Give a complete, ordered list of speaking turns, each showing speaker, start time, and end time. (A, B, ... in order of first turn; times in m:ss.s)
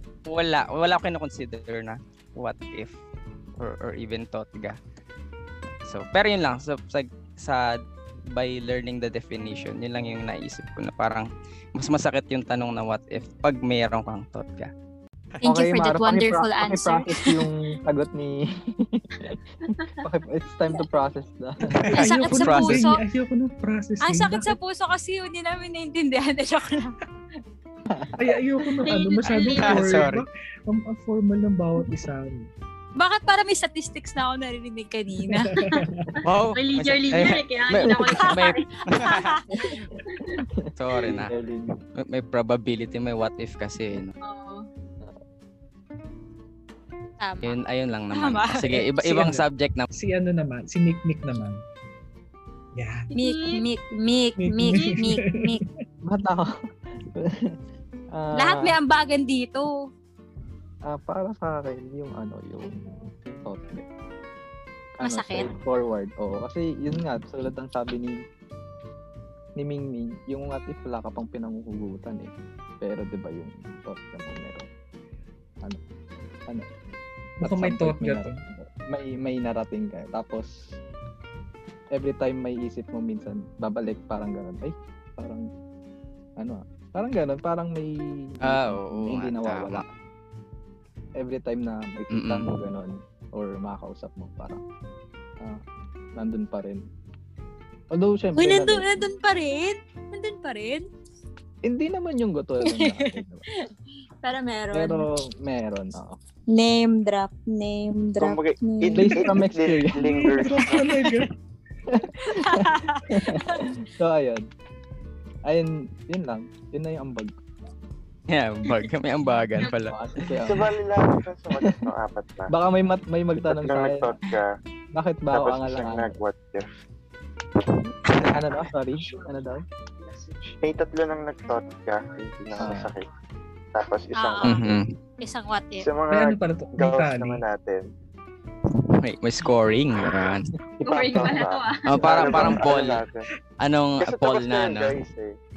0:00.3-0:03.0 A
0:03.6-0:04.8 A
0:05.8-0:07.8 A
0:08.3-0:14.7 A
0:15.4-0:17.4 B
0:15.4-0:19.4 C
0:20.0-0:21.9 C
0:21.8-0:22.8 A
0:21.9-0:24.5 D
0:21.9-0:23.0 B
0:24.0-0:26.9 B
0:27.9-0:28.3 C
0:28.2-0:32.5 D
0:28.8-0:29.8 E
0:29.2-0:30.2 A
0:33.0-0:35.6 B
0:35.5-0:36.2 D
0:36.2-0:39.4 A
0:36.6-0:38.6 E
0:37.8-0:38.1 C
0:38.2-0:39.4 B
0:39.5-0:40.0 C
0:40.8-0:41.3 A
0:41.0-0:41.8 C
0:41.9-0:44.1 A
0:44.2-0:44.6 E
0:47.2-0:47.6 B
0:47.4-0:49.8 A
0:48.1-0:48.8 B
0:49.0-0:51.6 D
0:52.8-0:53.1 D
0:53.1-0:55.6 B
0:53.2-0:53.6 E
0:54.4-0:55.2 D
0:56.0-0:56.5 C
0:57.1-0:57.5 C
0:58.1-0:58.8 C
0:58.4-0:59.7 B
1:00.8-1:03.8 C
1:05.0-1:08.1 C
1:05.0-1:05.5 B
1:09.6-1:14.7 C
1:17.4-1:18.4 D
1:17.4-1:20.8 C
1:21.9-1:25.4 C
1:26.4-1:29.8 C
1:28.4-1:29.8 A
1:31.2-1:34.6 C
1:32.1-1:32.5 A
1:36.2-1:36.8 C
1:37.9-1:38.9 C
1:38.3-1:40.8 B
1:41.6-1:43.4 C
1:42.6-1:43.2 B
1:44.2-1:45.0 B
1:44.7-1:46.2 C
1:46.5-1:49.3 B
1:48.2-1:50.9 F
1:48.9-1:50.0 C
1:50.0-1:51.3 D
1:51.9-1:54.4 C
1:52.3-1:53.6 B
1:55.5-1:57.3 C
1:58.3-2:00.0 A
1:59.9-2:00.7 C
2:00.4-2:02.5 F
2:01.6-2:01.8 C
2:02.5-2:04.1 C
2:03.4-2:04.5 F
2:04.9-2:06.2 C
2:05.3-2:06.7 F
2:08.1-2:08.4 A
2:08.2-2:09.6 C
2:10.1-2:13.0 F
2:12.6-2:12.9 C
2:13.7-2:14.7 F
2:14.2-2:14.7 B
2:14.4-2:14.8 A
2:15.2-2:15.8 B
2:15.8-2:17.9 F
2:16.1-2:17.4 D
2:19.0-2:20.4 A
2:20.8-2:21.8 E
2:20.8-2:23.2 F
2:21.8-2:23.0 A
2:23.6-2:25.0 A
2:24.0-2:25.3 F